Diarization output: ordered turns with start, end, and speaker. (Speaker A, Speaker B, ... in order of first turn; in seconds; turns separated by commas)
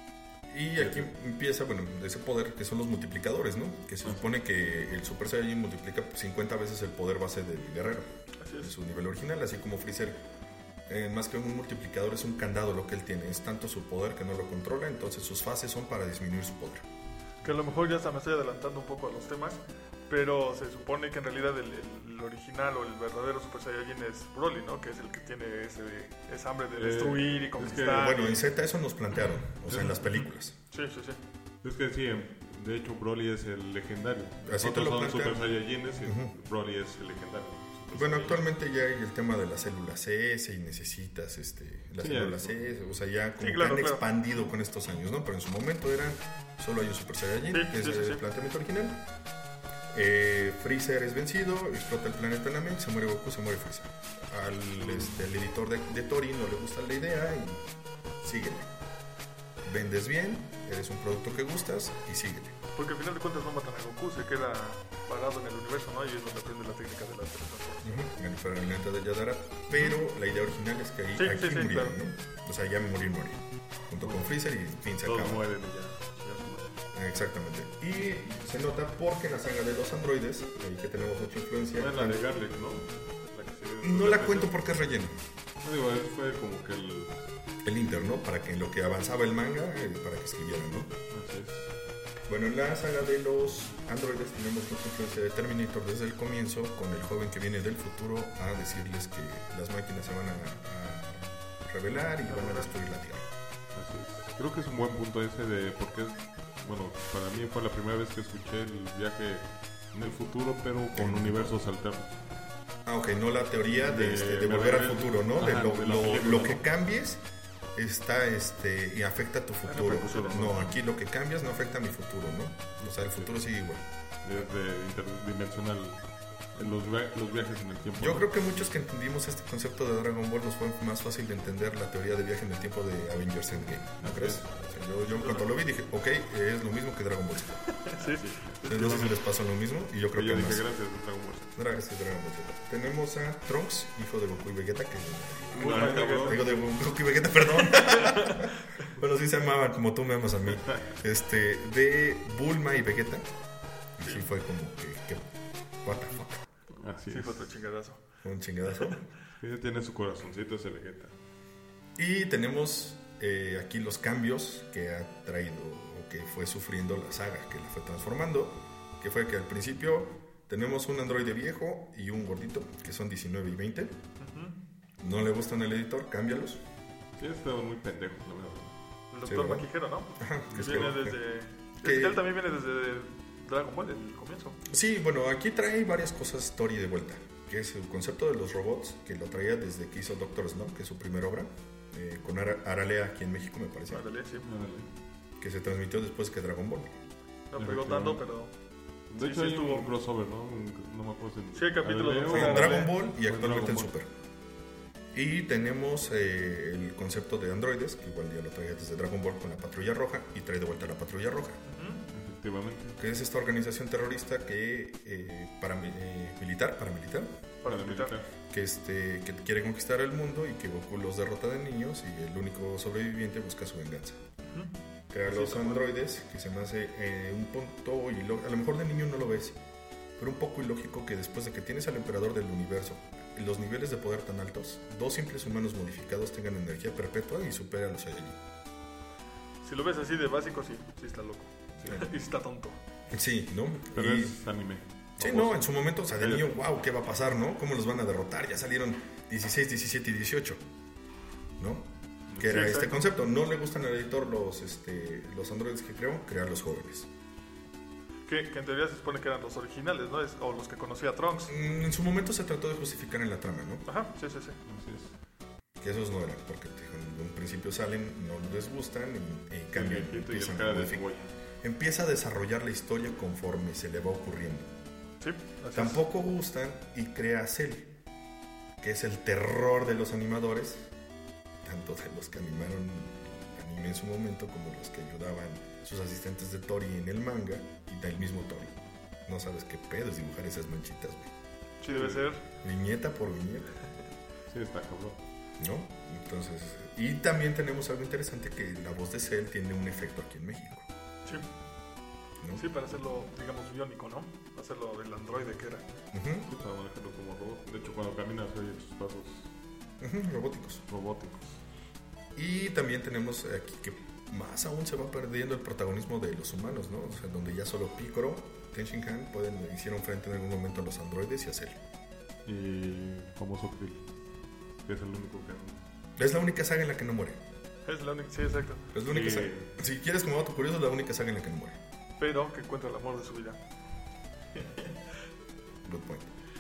Speaker A: 0.5-8.1, Speaker B: 0.8-1.1, Speaker B: 4.0-4.4, Speaker C: 8.4-8.7, Speaker A: 8.6-10.2, Speaker A: 10.9-16.9, Speaker C: 17.4-28.4, Speaker B: 26.8-28.2, Speaker A: 27.8-30.6, Speaker B: 29.7-30.0, Speaker C: 30.7-31.2, Speaker B: 31.6-38.4, Speaker A: 34.5-35.5, Speaker A: 36.0-36.3, Speaker A: 37.9-49.0, Speaker B: 42.0-42.6, Speaker C: 43.4-44.1, Speaker C: 47.5-48.2, Speaker A: 49.9-57.7, Speaker B: 54.9-55.1, Speaker A: 58.2-58.7, Speaker A: 59.6-62.6, Speaker C: 62.8-68.1, Speaker A: 67.8-75.4, Speaker C: 71.2-72.0, Speaker B: 74.0-74.3, Speaker B: 75.0-76.7, Speaker A: 76.9-82.2, Speaker B: 81.8-84.7, Speaker A: 83.8-85.2, Speaker B: 85.6-87.2, Speaker A: 87.6-90.9, Speaker B: 91.1-91.7, Speaker A: 92.3-103.3, Speaker C: 102.2-102.7, Speaker B: 103.7-112.2, Speaker A: 110.9-111.5, Speaker A: 112.8-117.2, Speaker B: 113.8-116.7, Speaker A: 117.8-124.5, Speaker B: 119.7-120.7, Speaker C: 119.8-120.7, Speaker B: 122.8-123.5, Speaker B: 124.2-128.3, Speaker A: 128.0-137.6, Speaker B: 133.6-135.5, Speaker C: 137.8-138.3, Speaker B: 138.0-139.2, Speaker A: 138.7-140.7, Speaker B: 140.1-141.6, Speaker A: 141.6-153.3, Speaker B: 145.5-146.6, Speaker C: 145.6-146.5, Speaker C: 147.6-148.6, Speaker A: 154.0-155.3, Speaker A: 155.8-156.5, Speaker B: 156.8-157.5, Speaker C: 157.1-158.0, Speaker A: 158.2-159.1, Speaker B: 159.4-161.2, Speaker A: 162.0-174.0, Speaker C: 174.2-174.6, Speaker A: 175.0-176.6, Speaker B: 177.2-178.7, Speaker C: 179.1-184.6, Speaker A: 179.3-181.2, Speaker B: 180.5-181.0, Speaker A: 181.8-182.2, Speaker A: 184.7-194.1, Speaker C: 193.9-194.5, Speaker B: 194.4-194.9, Speaker A: 195.4-196.9, Speaker C: 197.5-198.5, Speaker B: 197.6-198.2, Speaker B: 199.1-203.9, Speaker C: 199.2-199.9, Speaker C: 201.5-202.9, Speaker A: 202.3-204.1, Speaker A: 205.1-211.6, Speaker C: 211.6-212.0, Speaker B: 212.1-213.0, Speaker A: 213.0-217.3, Speaker C: 217.6-218.2, Speaker B: 217.7-218.3, Speaker A: 218.5-224.2, Speaker C: 224.4-224.7, Speaker A: 225.1-229.6, Speaker B: 225.3-225.8, Speaker A: 230.2-238.4, Speaker C: 239.6-242.8, Speaker A: 243.1-244.4, Speaker B: 243.9-246.6, Speaker A: 245.2-250.6, Speaker A: 251.6-257.1, Speaker B: 252.3-252.8, Speaker C: 252.5-253.0, Speaker C: 258.3-261.6, Speaker A: 261.5-263.8, Speaker C: 263.9-264.6, Speaker B: 264.7-265.1, Speaker A: 265.8-271.1, Speaker B: 269.7-271.3, Speaker A: 271.6-274.7, Speaker C: 275.2-276.0, Speaker A: 275.7-277.9, Speaker A: 278.8-280.9, Speaker A: 281.6-291.3, Speaker C: 291.8-292.4, Speaker B: 291.9-292.3, Speaker A: 292.6-293.8, Speaker B: 294.5-295.2, Speaker A: 295.6-300.9, Speaker A: 302.4-302.6, Speaker C: 302.6-305.9, Speaker A: 306.1-306.5, Speaker B: 306.5-309.5, Speaker A: 310.0-310.8, Speaker B: 310.9-311.6, Speaker A: 312.4-321.8, Speaker B: 322.5-324.1, Speaker B: 324.9-325.8, Speaker A: 326.2-327.4, Speaker C: 327.9-328.9, Speaker A: 328.9-331.8, Speaker B: 329.1-329.7, Speaker C: 332.2-333.6, Speaker C: 334.6-334.9, Speaker A: 335.9-336.3